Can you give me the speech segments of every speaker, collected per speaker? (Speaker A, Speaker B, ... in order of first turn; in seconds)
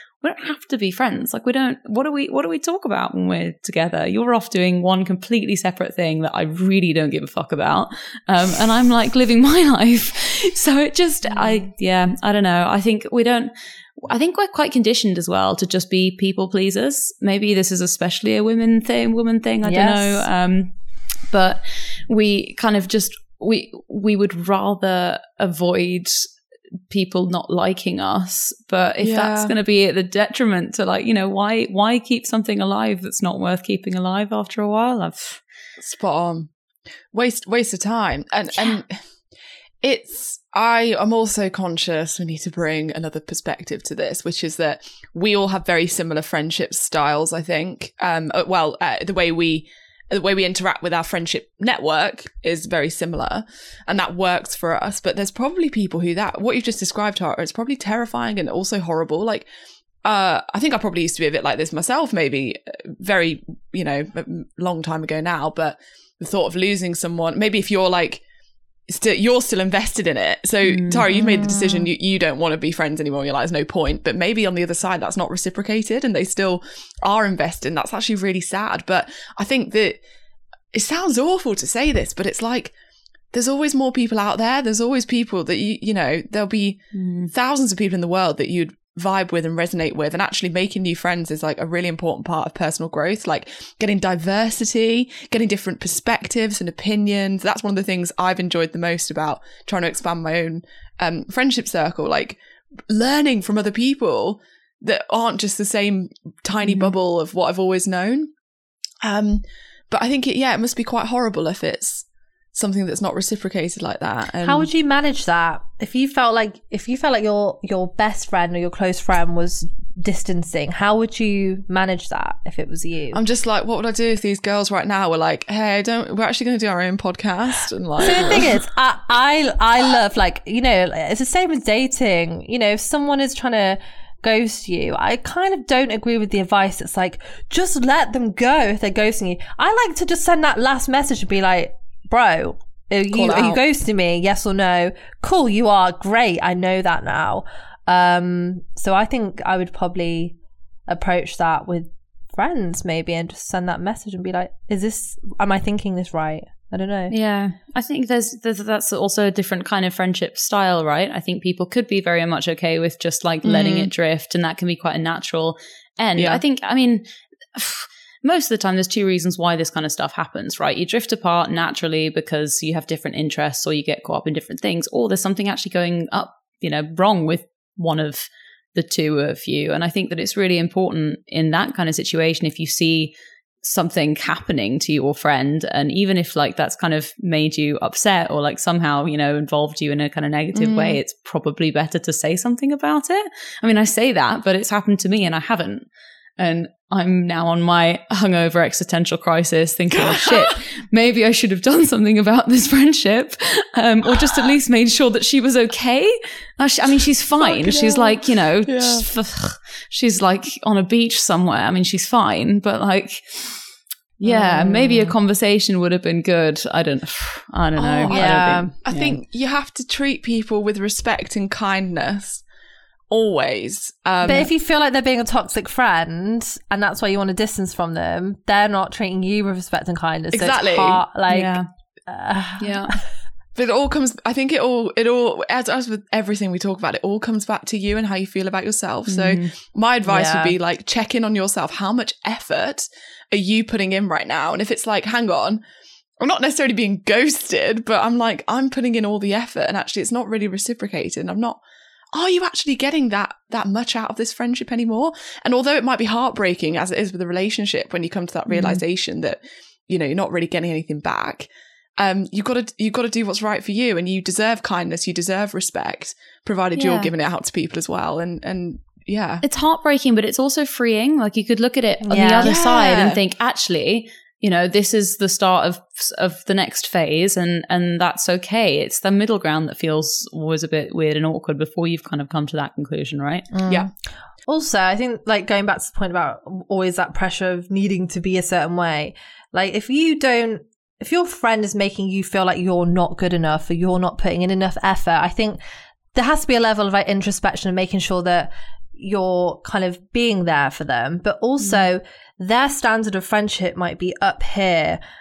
Speaker A: 0.2-20.7, 21.3-26.2, 26.9-35.4, 70.7-71.5, 86.9-87.3, 157.1-167.0, 167.5-195.8, 196.4-213.6, 214.2-219.2, 231.3-231.6, 232.6-232.9, 239.1-239.5, 258.5-258.8, 269.4-283.5
Speaker B: 19.6-20.3, 71.4-71.8, 114.4-123.2, 128.0-150.3, 150.9-157.1, 214.2-215.1, 218.1-218.8, 224.2-233.0, 240.0-240.5, 266.8-267.1, 272.1-272.5, 283.5-283.9, 284.5-295.6, 296.1-305.0
Speaker C: 29.0-29.5, 35.8-36.5, 37.1-38.9, 39.8-59.5, 60.0-68.2, 68.9-80.0, 80.7-82.7, 83.3-102.4, 102.9-108.3, 109.0-114.7, 123.1-128.5, 143.1-143.6, 163.4-163.9, 166.2-166.4, 190.5-191.0, 199.9-200.6, 207.4-209.0, 217.8-222.4, 223.1-224.5, 230.3-231.0, 233.6-245.6, 246.2-251.6, 252.1-269.4, 272.4-273.2